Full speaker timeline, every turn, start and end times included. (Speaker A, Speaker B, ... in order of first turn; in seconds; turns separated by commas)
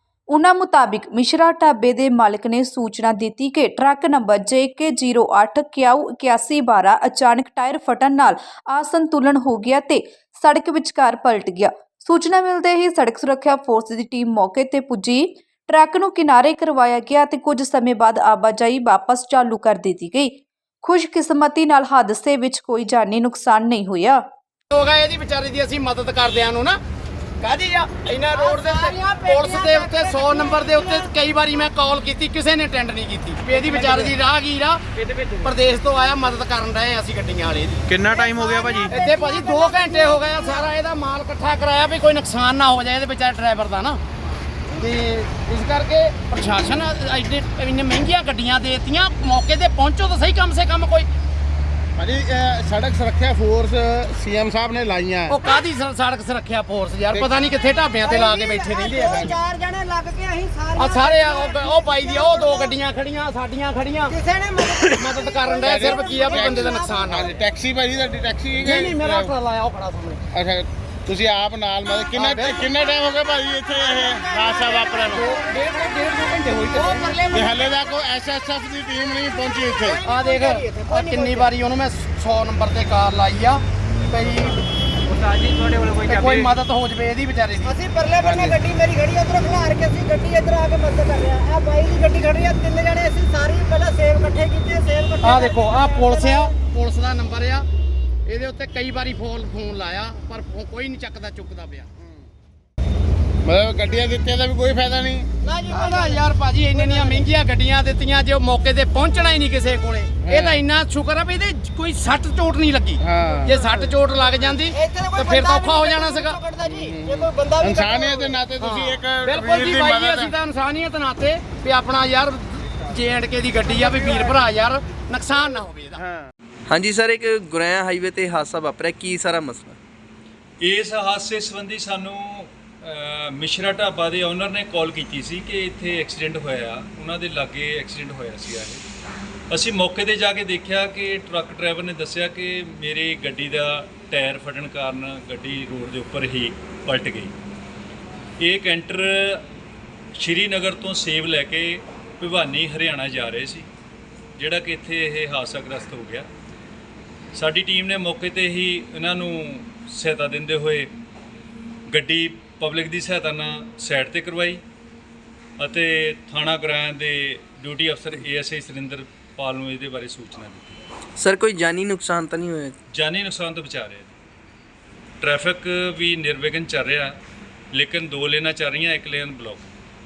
Speaker A: 0.3-24.2, Speaker B: 24.7-26.8, Speaker B: 27.4-34.8, Speaker C: 28.3-31.1, Speaker B: 35.4-37.8, Speaker D: 37.9-38.9, Speaker C: 38.4-40.5, Speaker B: 38.8-44.0, Speaker B: 44.7-51.1, Speaker E: 52.0-55.4, Speaker B: 55.3-59.3, Speaker C: 58.0-62.8, Speaker B: 60.8-64.2, Speaker C: 64.1-67.0, Speaker B: 64.9-67.3, Speaker E: 65.7-69.3, Speaker B: 68.6-70.2, Speaker E: 70.3-75.3, Speaker B: 72.2-72.7, Speaker C: 73.8-75.6, Speaker B: 75.0-77.1, Speaker C: 76.5-77.9, Speaker E: 77.3-80.0, Speaker C: 79.5-81.5, Speaker B: 80.0-84.6, Speaker B: 86.0-87.7, Speaker C: 87.6-96.5, Speaker B: 95.2-97.7, Speaker B: 98.2-101.9, Speaker E: 103.4-105.3, Speaker C: 105.4-107.2, Speaker B: 105.7-116.4, Speaker E: 110.2-110.6, Speaker E: 113.0-113.5, Speaker C: 114.6-118.4, Speaker E: 116.6-120.3, Speaker B: 118.6-126.0, Speaker C: 123.7-124.4, Speaker E: 126.0-126.3, Speaker D: 126.7-129.8, Speaker F: 130.6-138.8, Speaker F: 139.5-147.3, Speaker F: 148.4-149.4, Speaker F: 150.2-153.7, Speaker F: 154.3-156.3, Speaker F: 157.3-160.9, Speaker F: 161.9-164.6, Speaker F: 165.6-170.8, Speaker D: 171.2-172.8, Speaker F: 172.9-174.1, Speaker F: 175.2-177.2, Speaker F: 177.7-179.7